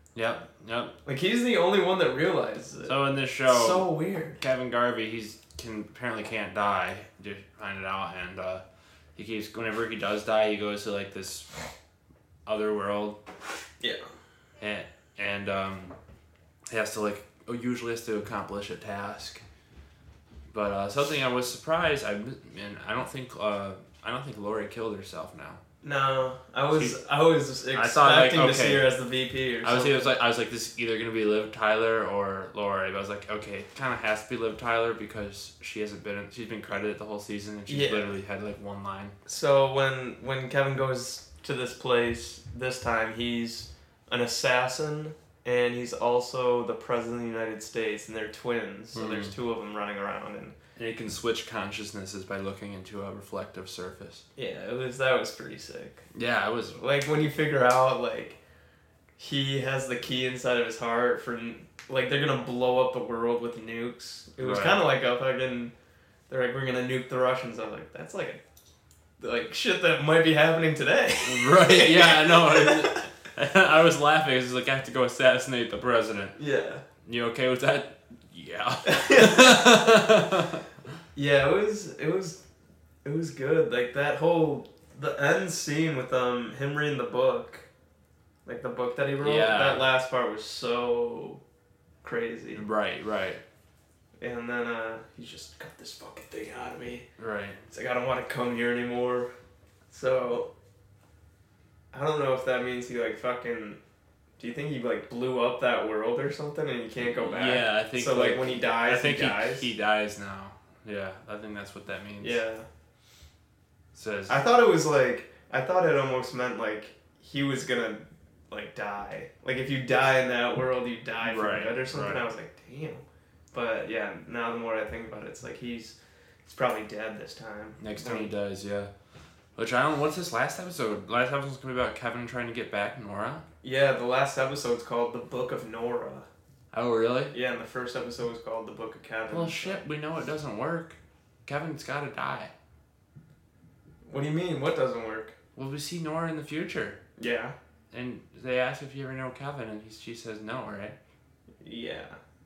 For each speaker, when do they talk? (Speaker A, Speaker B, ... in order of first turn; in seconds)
Speaker A: 0.1-0.9, 2.9-8.6, 9.1-11.5, 12.4-13.2, 14.6-15.9, 16.7-19.4, 20.5-25.6, 26.7-27.0, 27.7-28.9, 29.6-39.1, 48.9-49.3, 50.8-54.2, 56.1-56.8, 64.4-64.8, 71.2-76.4, 77.0-80.6, 89.2-89.9, 92.5-93.4, 97.2-97.7, 107.0-112.4, 113.9-114.4, 121.2-122.2, 127.8-128.9, 129.6-133.4, 136.7-137.3, 139.3-142.5, 145.5-147.0, 147.9-150.9
Speaker B: 1.0-4.4, 25.8-30.2, 37.7-38.1, 39.2-50.5, 54.4-56.0, 56.8-58.4, 59.2-65.7, 66.3-68.4, 69.2-73.1, 76.3-76.8, 78.8-79.7, 81.1-82.4, 83.0-87.7, 88.5-91.4, 92.0-92.6, 94.2-97.1, 97.7-99.3, 99.9-100.5, 101.9-103.8, 104.4-109.7, 112.2-112.7, 114.3-128.3, 133.6-136.3, 137.3-139.8, 144.1-145.3, 147.2-147.5, 151.6-152.2